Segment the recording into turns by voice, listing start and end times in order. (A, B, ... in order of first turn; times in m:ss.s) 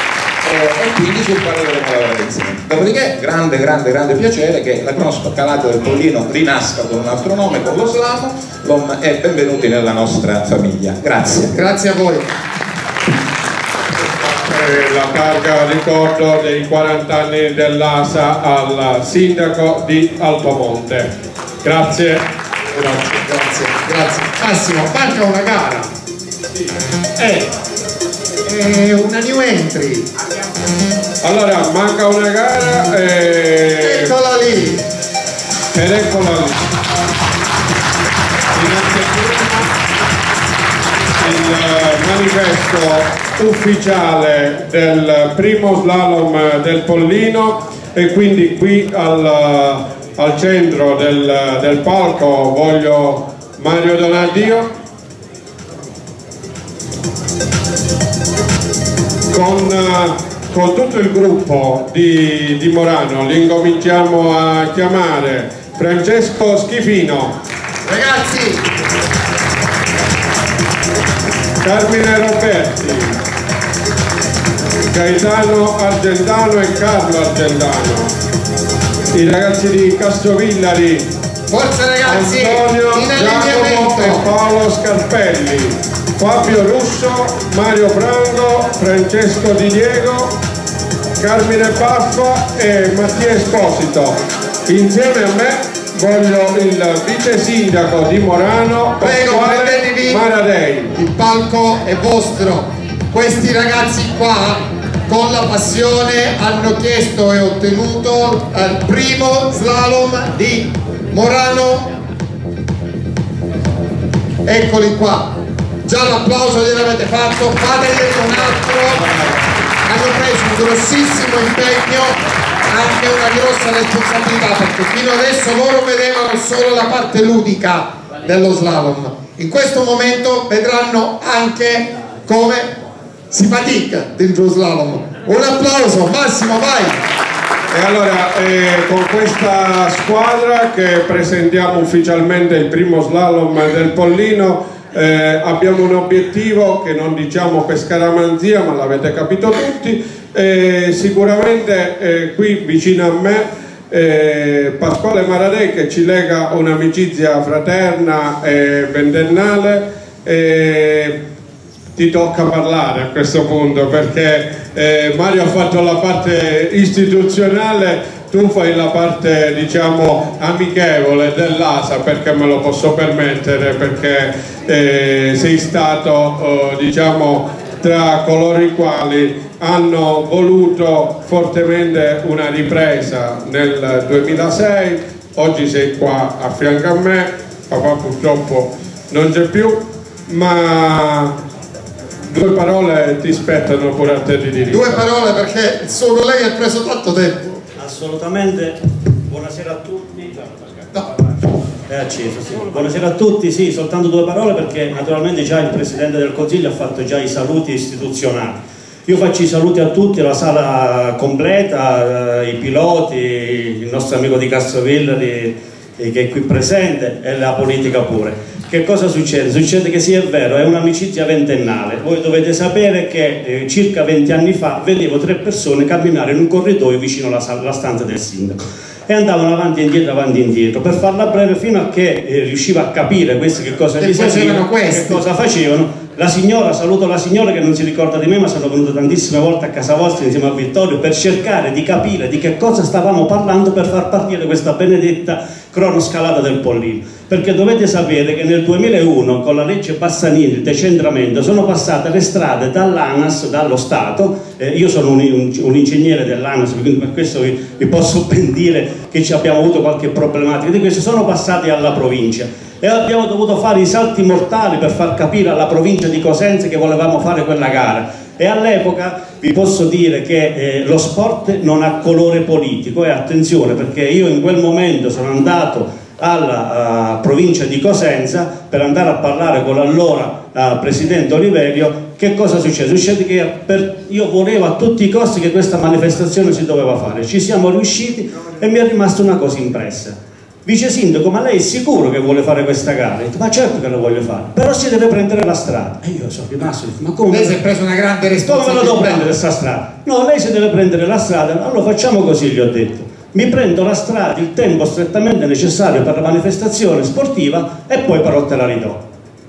0:00.4-0:11.5 A
0:11.5-0:12.3 B
0:14.2-0:21.1 C
0:21.6-0:23.1 C
0:23.0-0:25.9 B
0:27.2-0:27.5 B
0:28.4-0:30.1 B
0:31.2-0:34.1 C
0:33.8-0:34.8 B
0:35.7-0:36.6 C
0:38.6-0:39.5 B
0:41.2-0:54.7 C
0:59.3-1:07.3 C
1:07.8-1:08.6 B
1:11.6-1:13.2 C
1:14.9-1:18.1 C
1:19.1-1:21.1 C
1:21.5-1:24.2 B
1:22.0-1:30.3 C
1:31.2-1:40.9 C
1:39.0-1:40.2 B
1:41.0-1:51.9 B
1:54.4-1:55.3 B
1:55.8-1:59.3 B
1:59.8-2:12.7 B
2:13.3-2:17.0 B
2:17.7-2:41.2 C
2:42.0-3:11.3 C
3:12.3-3:15.0 C
3:14.7-3:17.6 B
3:17.8-3:21.0 D
3:21.9-4:57.6 D
3:54.0-3:55.2 B
4:57.3-4:59.3 B
4:58.4-5:09.0 D